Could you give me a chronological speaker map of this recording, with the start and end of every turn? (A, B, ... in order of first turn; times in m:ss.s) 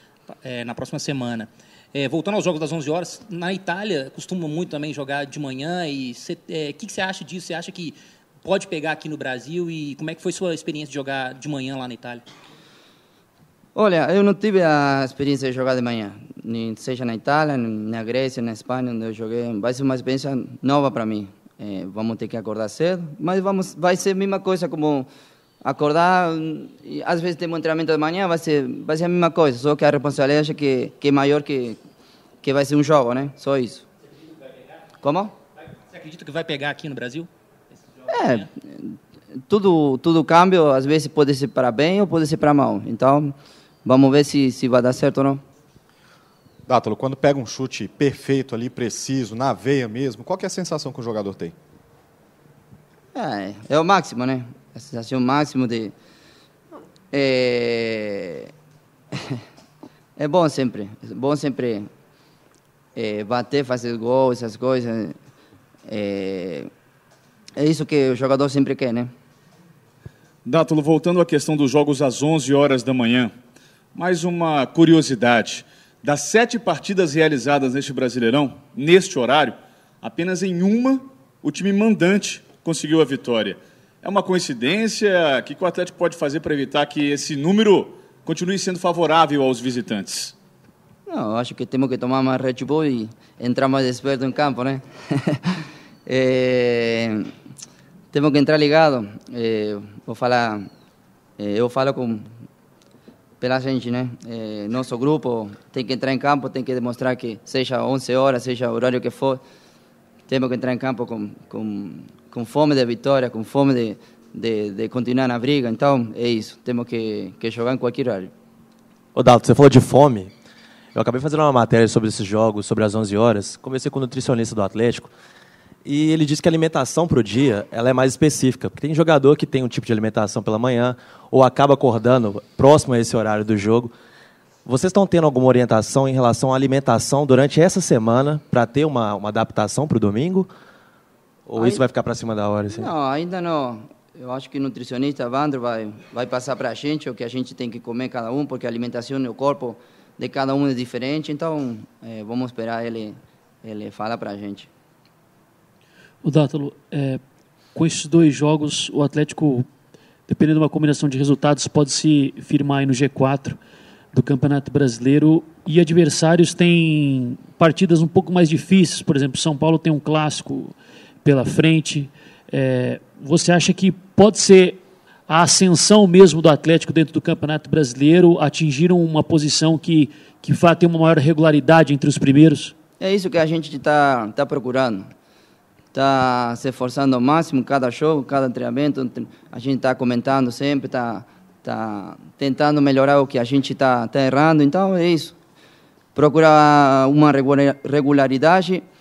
0:00.3-0:12.2 A
0:13.8-0:25.1 B
0:25.6-0:31.8 B
0:32.4-0:33.9 B
0:35.0-0:35.3 B
0:35.9-0:37.3 A
0:38.1-0:38.5 A
0:38.1-0:39.0 B
0:39.5-0:45.4 B
0:46.7-0:51.5 C
0:53.1-0:55.9 B
0:57.1-0:58.5 B
1:00.2-1:01.9 B
1:03.0-1:05.2 B
1:05.9-1:06.7 B
1:07.6-1:09.1 B
1:10.4-1:13.3 D
1:14.0-1:30.3 D
1:31.1-1:37.3 B
1:38.1-1:40.7 B
1:41.4-1:42.3 B
1:43.4-1:49.4 B
1:50.3-1:58.3 B
1:59.2-2:00.3 E
2:01.0-2:05.1 E
2:05.8-2:13.9 E
2:14.7-2:20.5 E
2:21.5-2:22.9 E
2:21.6-2:21.8 B
2:22.7-2:34.7 B
2:36.2-2:37.2 F
2:37.7-2:39.7 F
2:40.3-2:43.6 F
2:44.1-3:02.7 F
3:03.0-3:05.1 B
3:05.9-3:15.4 B
3:16.2-3:18.8 B